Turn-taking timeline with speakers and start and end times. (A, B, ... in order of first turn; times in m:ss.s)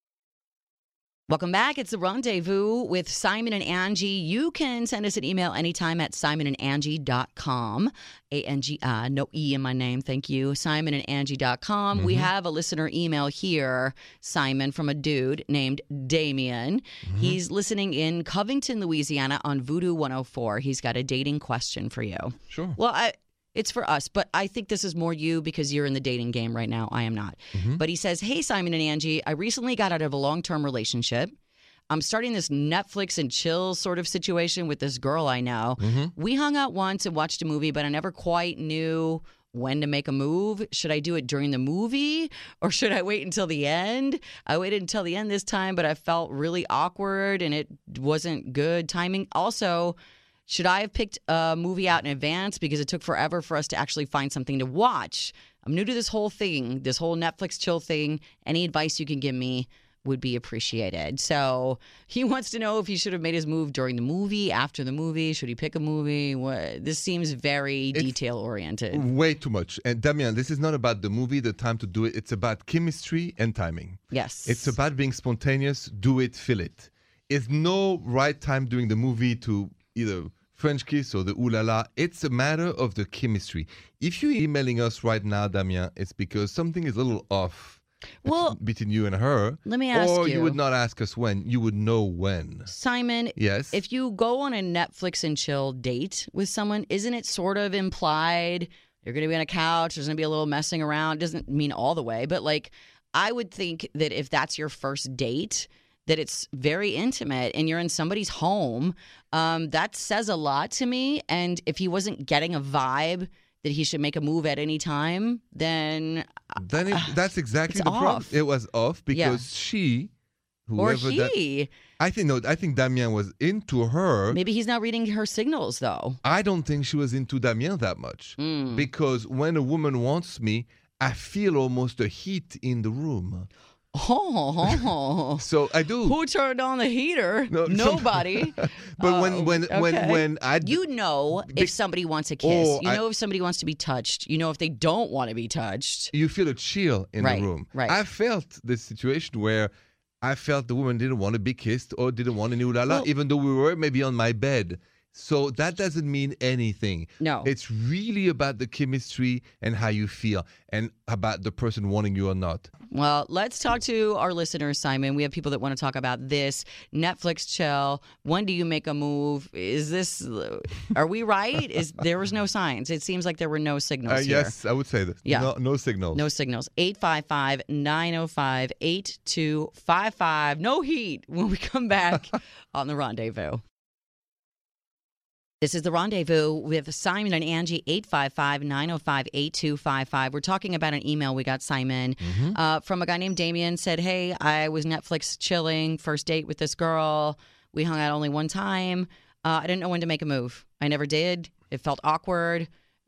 0:01.3-0:31.3 A
0:11.9-0:12.3 B
0:17.0-0:17.4 B
0:22.5-0:22.8 B
0:27.5-0:27.8 B
0:31.9-0:50.0 A
0:35.8-0:36.1 B
0:50.5-1:09.0 A
1:08.9-1:32.7 B
1:14.1-1:14.7 A
1:28.2-1:28.6 A
1:29.6-1:30.6 A
1:32.7-1:57.2 A
1:33.4-1:33.8 B
1:56.6-2:00.1 B
1:57.7-1:58.4 A
1:59.1-1:59.4 A
2:00.7-2:01.3 B
2:00.8-2:01.7 A
2:02.0-2:04.4 B
2:04.3-2:06.2 A
2:06.2-2:13.5 B
2:08.4-2:08.9 A
2:13.9-2:15.4 A
2:15.4-2:16.2 B
2:16.0-2:26.1 A
2:17.5-2:20.8 B
2:21.4-2:21.7 B
2:22.4-2:23.0 B
2:26.1-2:29.7 B
2:27.2-2:28.0 A
2:30.2-2:42.7 B
2:37.2-2:37.5 A
2:42.9-2:54.6 A
2:54.1-2:56.2 B
2:55.2-2:55.5 A
2:56.1-3:03.6 A
3:05.6-3:22.7 A
3:12.2-3:12.6 B